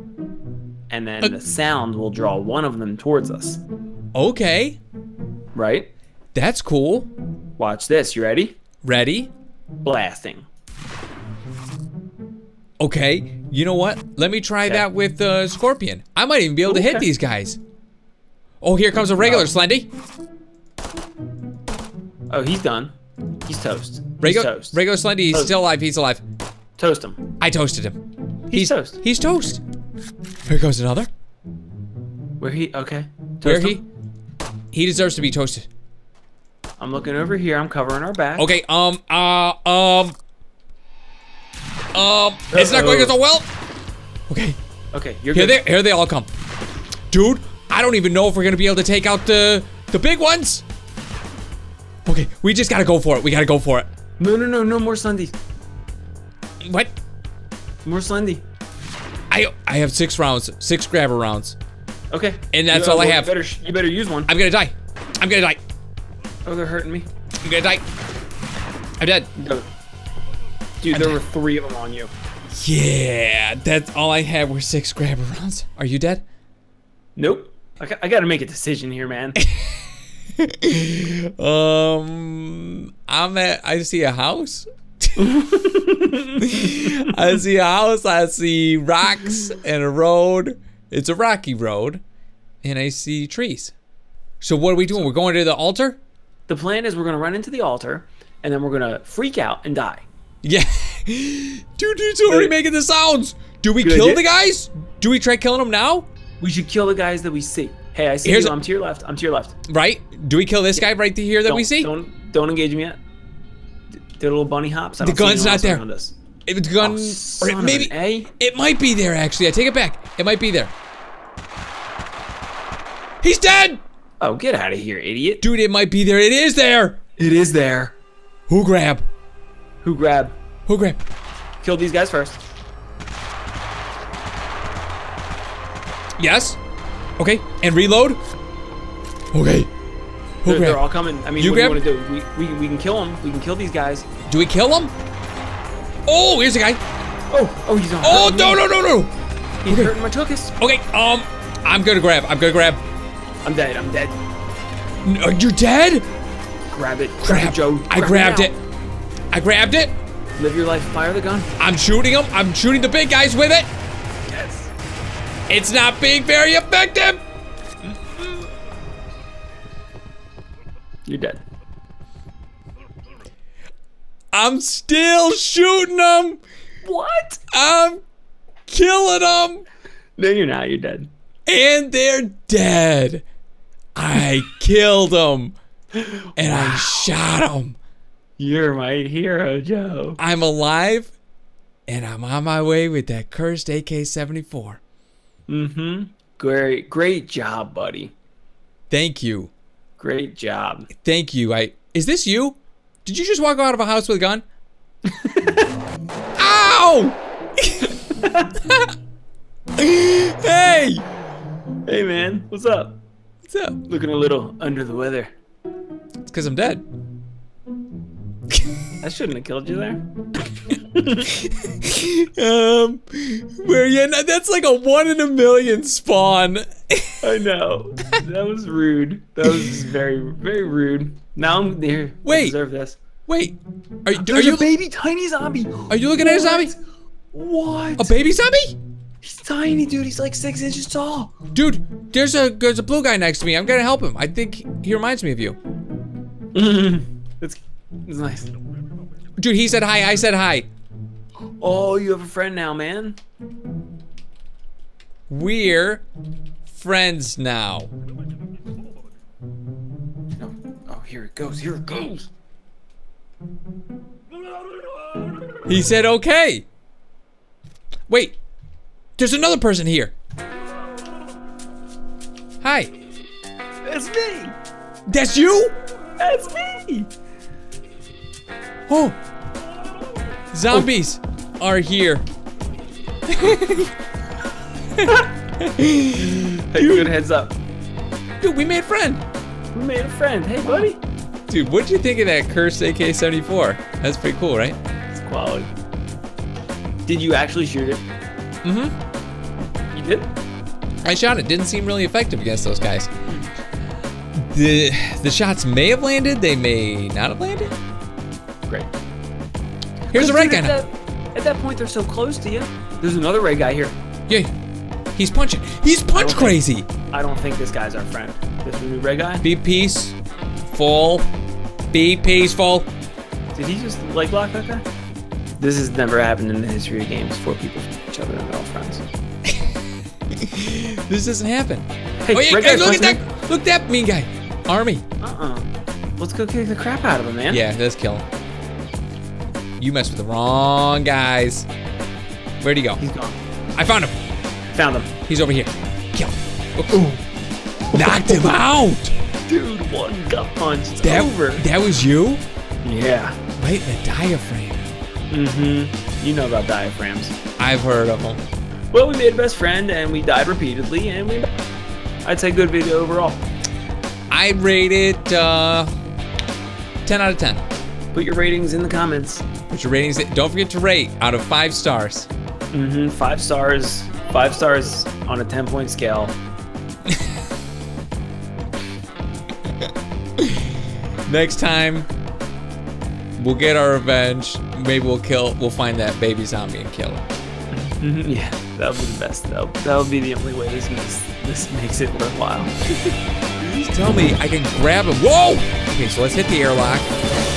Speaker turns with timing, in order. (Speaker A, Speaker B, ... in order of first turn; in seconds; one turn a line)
Speaker A: 0.9-3.6
Speaker B: 4.1-4.8
Speaker A: 5.5-5.9
Speaker B: 6.3-7.1
Speaker A: 7.6-8.6
Speaker B: 8.8-9.3
Speaker A: 9.8-10.4
Speaker B: 12.8-17.6
Speaker A: 16.6-17.1
Speaker B: 18.6-19.9
Speaker A: 19.2-19.5
Speaker A: 22.3-22.9
Speaker A: 23.4-24.8
Speaker B: 24.2-26.2
Speaker A: 26.8-27.2
Speaker B: 27.4-28.0
Speaker A: 28.5-29.0
Speaker B: 28.5-29.6
Speaker B: 30.5-31.1
Speaker A: 32.4-33.8
Speaker B: 33.4-33.8
Speaker B: 34.7-35.7
Speaker A: 36.8-38.5
Speaker B: 38.4-40.1
Speaker B: 41.9-43.5
Speaker A: 42.5-43.1
Speaker B: 44.3-44.6
Speaker A: 44.9-45.6
Speaker B: 45.3-46.3
Speaker B: 47.1-50.6
Speaker B: 52.0-53.9
Speaker A: 54.2-55.3
Speaker B: 56.6-56.9
Speaker A: 57.8-58.4
Speaker B: 59.3-61.5
Speaker A: 62.1-64.3
Speaker B: 62.5-63.3
Speaker B: 64.3-65.6
Speaker A: 66.4-67.1
Speaker B: 67.4-67.8
Speaker B: 69.0-69.3
Speaker A: 69.4-69.7
Speaker A: 70.8-72.1
Speaker B: 70.9-71.2
Speaker B: 72.5-76.2
Speaker A: 77.2-79.4
Speaker B: 79.4-79.8
Speaker B: 80.4-85.3
Speaker A: 85.2-87.1
Speaker B: 86.4-92.0
Speaker B: 92.6-93.7
Speaker B: 94.4-96.0
Speaker A: 96.5-100.0
Speaker B: 100.4-106.1
Speaker A: 102.3-102.5
Speaker A: 103.8-104.2
Speaker A: 106.4-109.5
Speaker B: 108.2-108.6
Speaker B: 109.7-111.9
Speaker A: 111.5-113.0
Speaker A: 114.2-116.2
Speaker B: 115.0-115.8
Speaker B: 116.5-120.7
Speaker A: 116.8-118.3
Speaker B: 123.2-123.8
Speaker A: 124.2-125.4
Speaker B: 125.4-127.0
Speaker A: 127.2-127.9
Speaker B: 128.5-129.0
Speaker A: 129.8-130.3
Speaker B: 130.7-131.0
Speaker A: 131.6-132.4
Speaker B: 136.2-136.6
Speaker B: 137.2-138.2
Speaker B: 139.3-139.7
Speaker B: 140.4-140.8
Speaker A: 140.4-144.1
Speaker B: 141.4-141.8
Speaker B: 144.2-144.9
Speaker B: 146.1-146.8
Speaker A: 147.3-148.6
Speaker B: 148.0-149.1
Speaker A: 149.6-150.6
Speaker B: 149.7-149.9
Speaker B: 150.6-152.8
Speaker A: 153.4-154.2
Speaker B: 155.0-156.1
Speaker A: 156.7-158.5
Speaker B: 157.2-158.6
Speaker B: 159.3-159.9
Speaker A: 160.4-161.5
Speaker B: 161.6-163.7
Speaker A: 164.3-164.7
Speaker B: 165.5-167.2
Speaker A: 171.1-171.4
Speaker B: 174.3-176.4
Speaker A: 176.8-177.4
Speaker B: 177.5-178.0
Speaker B: 178.7-179.6
Speaker A: 180.2-181.1
Speaker B: 181.5-183.2
Speaker B: 183.9-185.6
Speaker A: 185.9-187.1
Speaker B: 186.3-187.8
Speaker A: 188.4-190.2
Speaker B: 190.2-191.1
Speaker B: 191.9-194.8
Speaker A: 195.5-198.1
Speaker B: 198.9-199.5
Speaker A: 200.0-200.9
Speaker B: 200.9-204.4
Speaker A: 205.1-205.4
Speaker B: 206.4-207.9
Speaker A: 208.2-208.5
Speaker B: 209.8-211.0
Speaker A: 211.8-213.0
Speaker B: 213.4-213.8
Speaker A: 213.9-215.3
Speaker B: 216.2-216.8
Speaker A: 219.0-220.0
Speaker A: 220.9-221.3
Speaker B: 221.2-227.2
Speaker A: 227.2-233.0
Speaker B: 229.5-229.8
Speaker B: 232.2-232.5
Speaker B: 233.3-234.7
Speaker A: 234.1-236.8
Speaker B: 235.9-236.7
Speaker A: 237.3-238.2
Speaker B: 238.0-238.8
Speaker A: 239.2-241.3
Speaker B: 241.5-245.6
Speaker A: 246.5-248.5
Speaker B: 249.4-250.7
Speaker A: 251.6-253.2
Speaker B: 255.3-256.0
Speaker B: 256.7-257.9
Speaker A: 260.4-262.3
Speaker B: 265.6-266.6
Speaker B: 268.1-268.4
Speaker B: 269.2-270.1
Speaker B: 272.6-272.9
Speaker A: 273.8-274.6
Speaker B: 275.1-275.8
Speaker A: 276.2-277.1
Speaker B: 278.9-279.2
Speaker B: 280.5-282.2
Speaker B: 283.3-283.9
Speaker B: 284.9-287.1
Speaker A: 286.2-287.6
Speaker B: 288.4-289.2
Speaker A: 289.7-291.0
Speaker B: 291.5-294.8
Speaker A: 295.1-295.7
Speaker A: 297.1-298.0
Speaker B: 298.6-298.9
Speaker A: 299.9-300.3
Speaker B: 301.0-303.1
Speaker B: 304.4-307.7
Speaker A: 310.1-313.9
Speaker B: 310.1-310.7
Speaker B: 315.1-316.9
Speaker A: 316.1-319.4
Speaker B: 319.4-321.3
Speaker B: 321.9-322.9
Speaker A: 323.5-324.8
Speaker A: 325.6-329.0
Speaker B: 330.3-335.0
Speaker A: 332.2-333.2
Speaker A: 335.2-337.6
Speaker B: 337.5-338.2
Speaker B: 339.8-341.7
Speaker B: 342.6-343.0
Speaker A: 343.0-343.4
Speaker B: 343.8-344.1
Speaker A: 344.7-345.1
Speaker B: 345.3-347.0
Speaker A: 346.9-347.2
Speaker A: 347.9-348.6
Speaker B: 347.9-349.1
Speaker A: 349.5-351.6
Speaker B: 351.0-352.4
Speaker A: 352.8-353.4
Speaker B: 353.6-354.9
Speaker A: 355.3-357.4
Speaker B: 357.6-358.4
Speaker A: 358.9-361.5
Speaker A: 362.2-363.4
Speaker B: 364.3-365.9
Speaker B: 367.0-367.6
Speaker A: 368.1-369.4
Speaker B: 369.7-372.3
Speaker A: 372.7-376.4
Speaker B: 380.4-380.7
Speaker B: 381.3-382.1
Speaker B: 383.4-387.2
Speaker A: 387.7-392.7
Speaker B: 393.6-397.1